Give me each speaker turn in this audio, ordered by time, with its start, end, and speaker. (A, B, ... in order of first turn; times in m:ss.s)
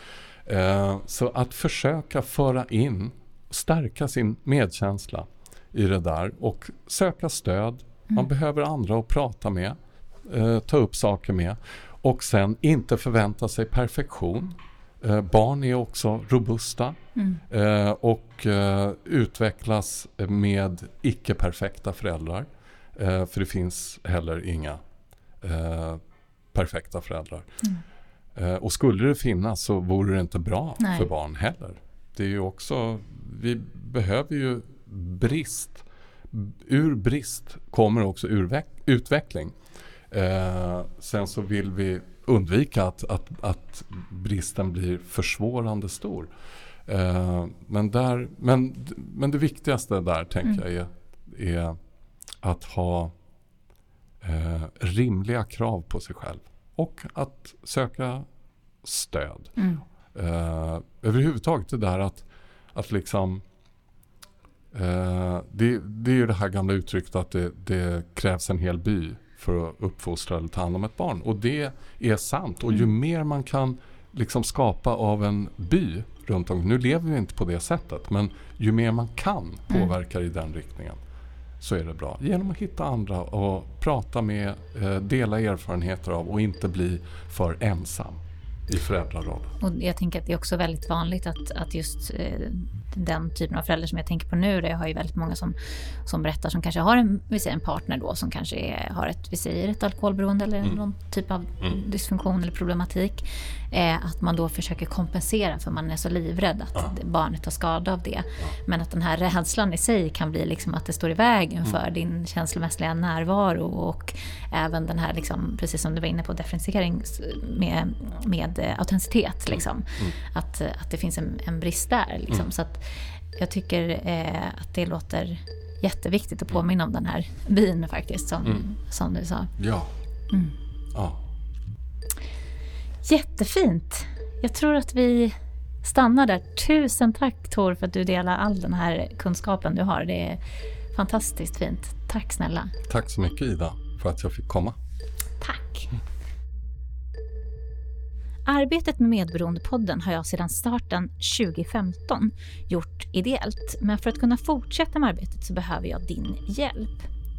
0:00.4-0:17.0 A
0:17.5-0:24.8 A
0:25.4-0:26.0 A
0:26.5-0:27.5 A
0:28.3-0:39.5 A
0:30.8-0:31.1 B
0:40.1-0:46.3 A
0:46.8-0:51.8 A
0:52.4-0:53.1 A
0:54.2-0:58.3 A
0:58.8-0:59.6 A
0:59.6-0:59.8 B
1:00.1-1:03.4 A
1:04.7-1:21.0 A
1:21.6-1:29.5 A
1:29.6-2:09.5 B
2:09.6-2:09.9 A
2:10.9-2:11.2 A
2:13.0-2:20.4 B
2:20.9-2:22.7 B
2:22.9-2:24.8 A
2:25.4-2:25.9 B
2:28.5-2:37.1 B